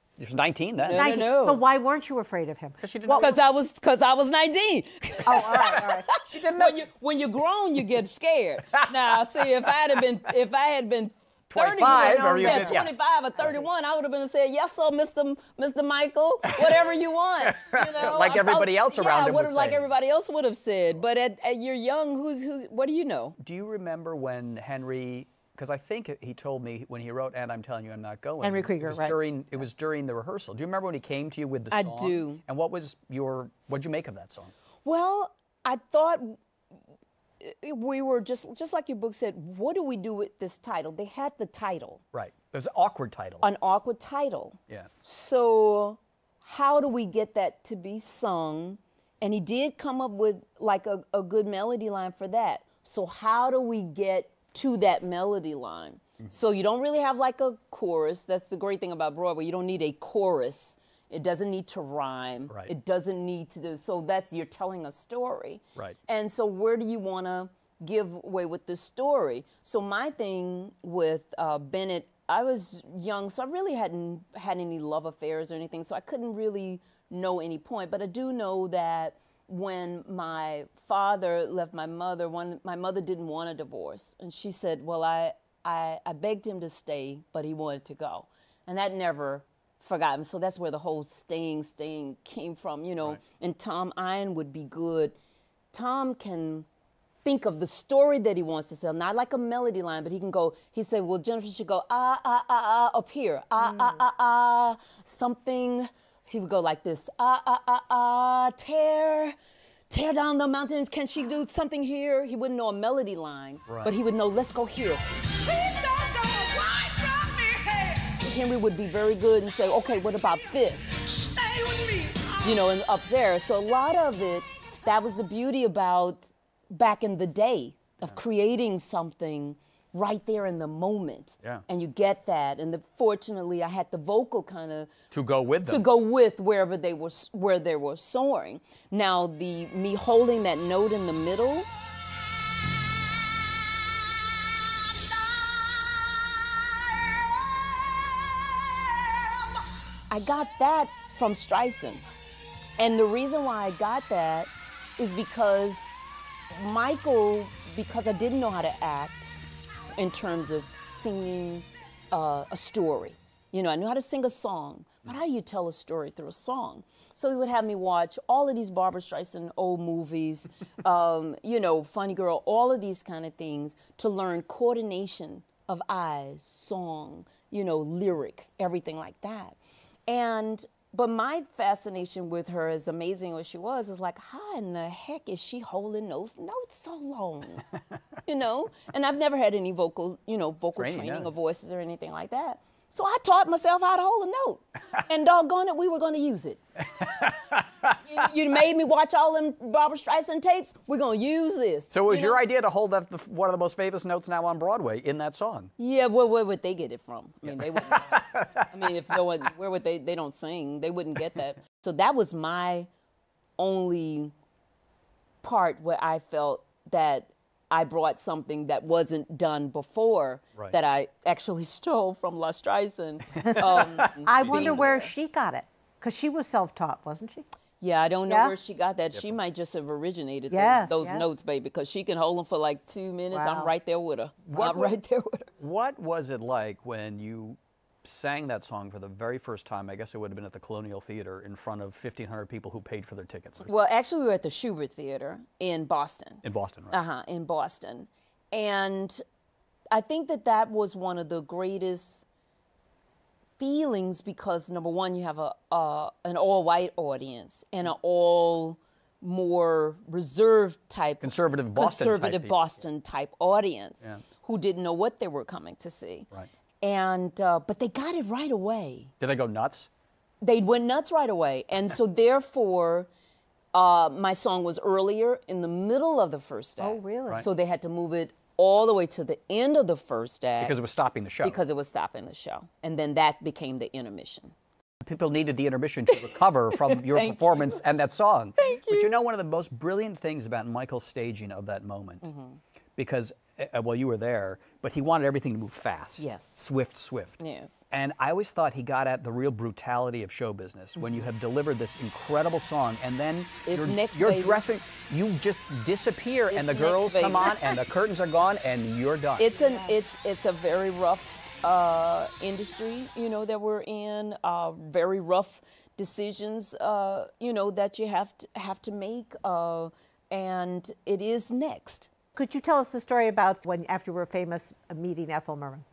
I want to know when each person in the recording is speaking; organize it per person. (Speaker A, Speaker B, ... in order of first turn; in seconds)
Speaker A: 0.2-1.0, 2.8-3.4, 5.5-6.8, 8.7-9.2, 11.5-13.6, 16.5-16.9, 17.4-19.9, 23.4-34.5, 42.1-43.4, 135.1-135.8, 190.8-191.3, 196.9-198.0, 201.9-205.7, 207.4-208.7, 223.4-224.8, 234.4-234.9, 235.6-243.7, 246.4-246.9, 261.2-262.5, 269.2-269.9, 280.6-281.6, 285.0-292.3, 293.0-297.4, 297.9-309.5
Speaker B: 0.8-1.6, 3.1-23.4, 31.7-32.4, 34.8-36.4, 37.4-42.0, 43.4-95.1, 95.7-96.7, 97.2-109.3, 109.9-134.9, 135.7-141.7, 150.1-152.0, 152.8-155.9, 156.5-159.4, 159.9-187.7, 188.2-196.6, 198.1-202.4, 205.8-212.9, 213.6-214.3, 215.4-225.1, 227.8-235.5, 243.7-249.2, 249.9-252.2, 253.6-266.3, 266.8-269.1, 270.4-273.1, 273.7-280.7, 281.4-284.5, 286.7-287.8, 288.6-289.1, 292.2-292.6, 296.2-296.6, 297.4-297.8, 303.6-304.6, 306.5-307.7, 309.4-322.1
Speaker C: 0.9-3.3, 5.2-6.1, 11.8-12.8, 28.4-29.2, 223.4-227.4, 228.3-228.5, 230.5-231.2, 233.3-233.7, 276.8-277.4, 309.6-309.9, 322.3-325.8